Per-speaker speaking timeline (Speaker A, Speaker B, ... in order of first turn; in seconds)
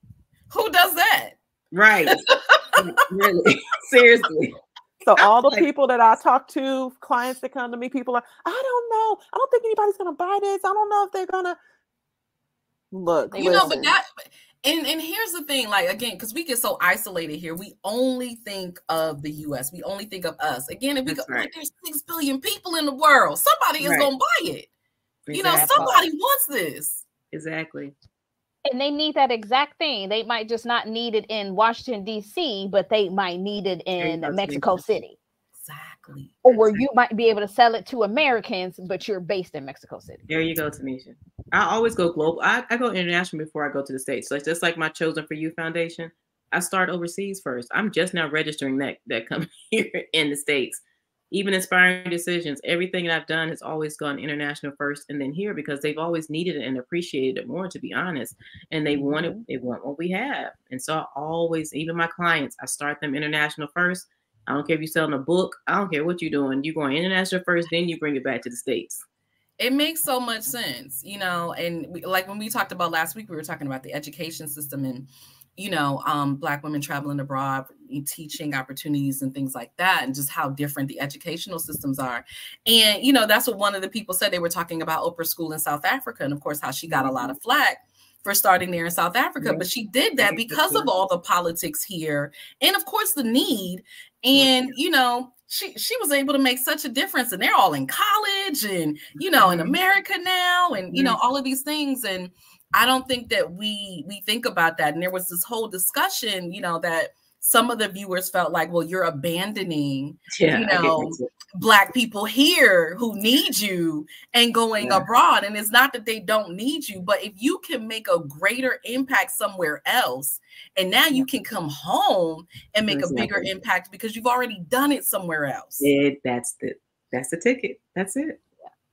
Speaker A: 0.5-1.4, 2.1-2.9, 13.4-24.7, 25.3-27.1, 35.6-36.5, 69.6-125.9
Speaker B: 1.7-4.6, 21.1-21.5, 23.8-24.1, 25.3-26.1, 27.3-27.9, 34.0-34.8, 40.3-69.0, 86.9-87.4, 89.4-89.7, 90.2-90.9, 94.3-94.7, 99.2-99.8, 100.9-101.2, 110.3-111.3, 114.8-115.1, 122.9-123.5, 125.8-128.4
Speaker C: 5.0-11.6, 12.9-13.9
Speaker D: 13.3-13.8, 28.7-35.2, 36.4-40.2